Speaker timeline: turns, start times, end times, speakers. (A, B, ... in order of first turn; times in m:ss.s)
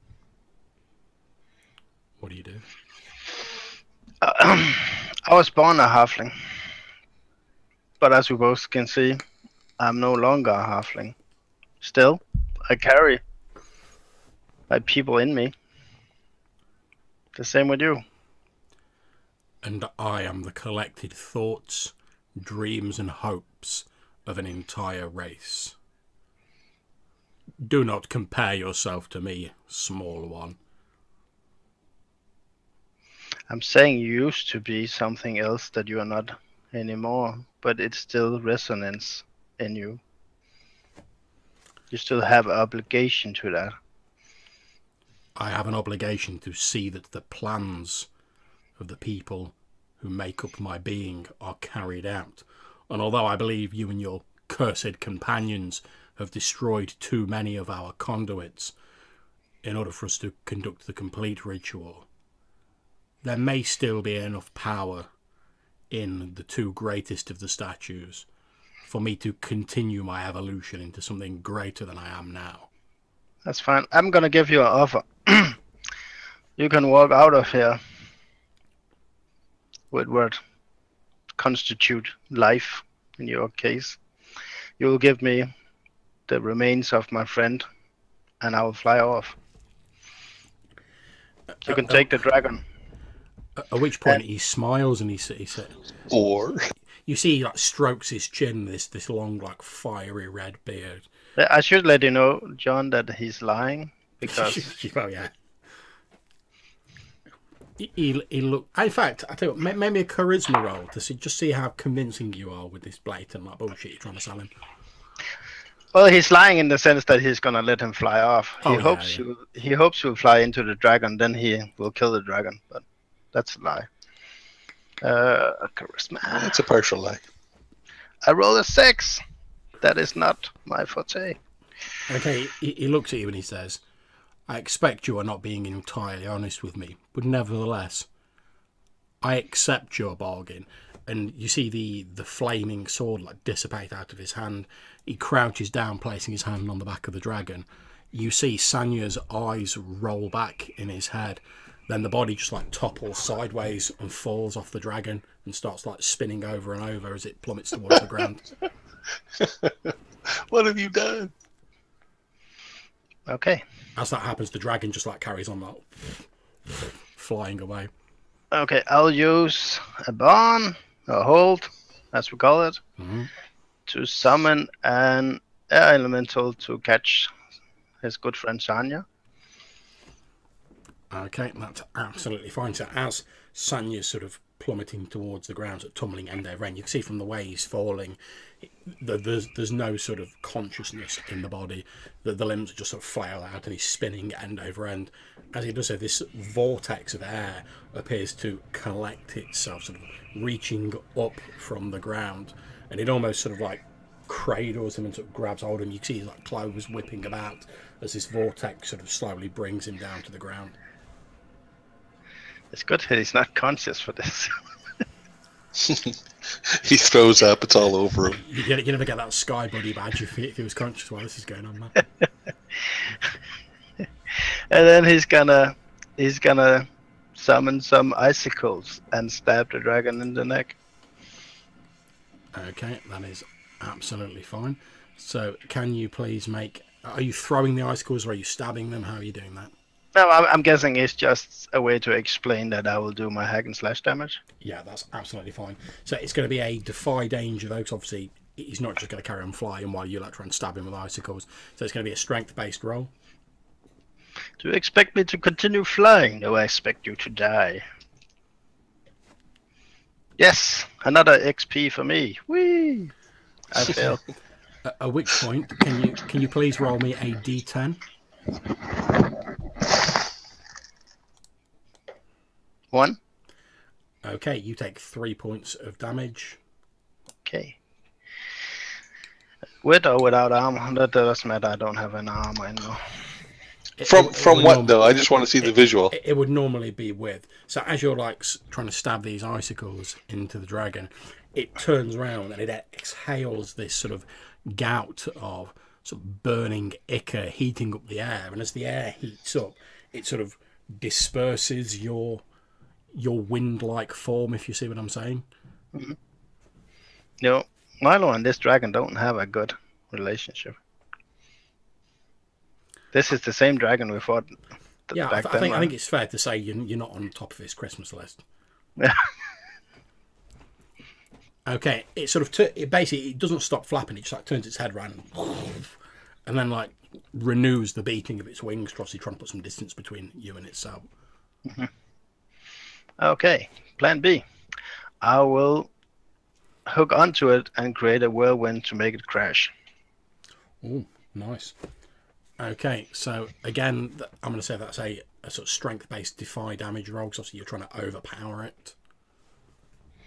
0:02.2-0:02.7 A
0:04.2-0:06.3 B
0:08.0-0:09.2 B
0:09.8-0:11.2 B
0:11.8-0:13.2 B
0:14.7-0:15.6 B
0:17.4-0:18.0 B
0:19.6-0:25.8 A
0:27.6-0:30.6 A
0:33.5-0:40.0 B
0:41.9-0:43.7 B
0:45.4-0:48.1 A
0:48.8-0:58.7 A
0:59.6-1:02.1 A
1:03.2-1:05.1 A
1:05.9-1:08.3 A
1:08.9-1:12.7 A
1:13.4-1:15.6 B
1:16.6-1:17.8 B
1:19.9-1:20.4 B
1:21.4-1:24.0 B
1:24.8-1:25.5 B
1:26.3-1:27.6 B
1:28.4-1:29.4 B
1:31.6-1:32.1 A
1:31.7-1:32.6 B
1:33.6-1:35.8 A
1:36.1-1:36.7 C
1:37.1-1:41.1 A
1:41.4-1:44.7 B
1:44.2-1:45.3 A
1:47.8-1:54.5 A
1:55.9-2:03.9 B
1:58.6-1:59.2 A
2:05.0-2:06.6 B
2:06.4-2:07.2 C
2:08.2-2:09.2 B
2:09.8-2:11.4 B
2:12.1-2:13.8 A
2:14.5-2:18.1 A
2:19.2-2:38.5 A
2:39.4-2:39.7 C
2:40.4-2:41.3 C
2:43.3-2:43.6 B
2:44.0-2:47.9 A
2:48.5-2:52.8 B
2:53.0-2:53.3 A
2:53.9-2:57.3 B
2:58.0-2:59.1 B
3:01.1-3:30.8 A
3:32.7-3:34.6 B
3:35.8-3:36.1 C
3:36.7-3:38.4 C
3:38.4-3:42.0 A
3:44.4-3:50.8 B
3:52.5-3:59.7 A
4:00.2-4:04.4 B
4:04.6-4:13.1 A
4:14.6-4:17.8 B
4:20.4-4:23.1 B
4:23.7-4:24.2 B
4:24.8-4:28.0 A
4:32.9-4:33.2 B
4:34.2-4:36.6 A
4:37.4-4:37.8 B
4:39.8-4:43.0 B
4:44.0-5:02.4 A
4:44.1-4:46.1 C
5:03.1-5:05.4 A
5:07.4-5:10.8 B
5:13.1-5:14.5 B
5:15.1-5:15.9 B
5:15.1-5:18.4 A
5:21.7-5:31.1 A
5:31.6-5:31.9 B
5:33.2-5:34.4 B
5:35.2-5:35.9 B
5:36.9-5:39.7 B
5:40.8-5:41.8 A
5:42.6-5:49.0 A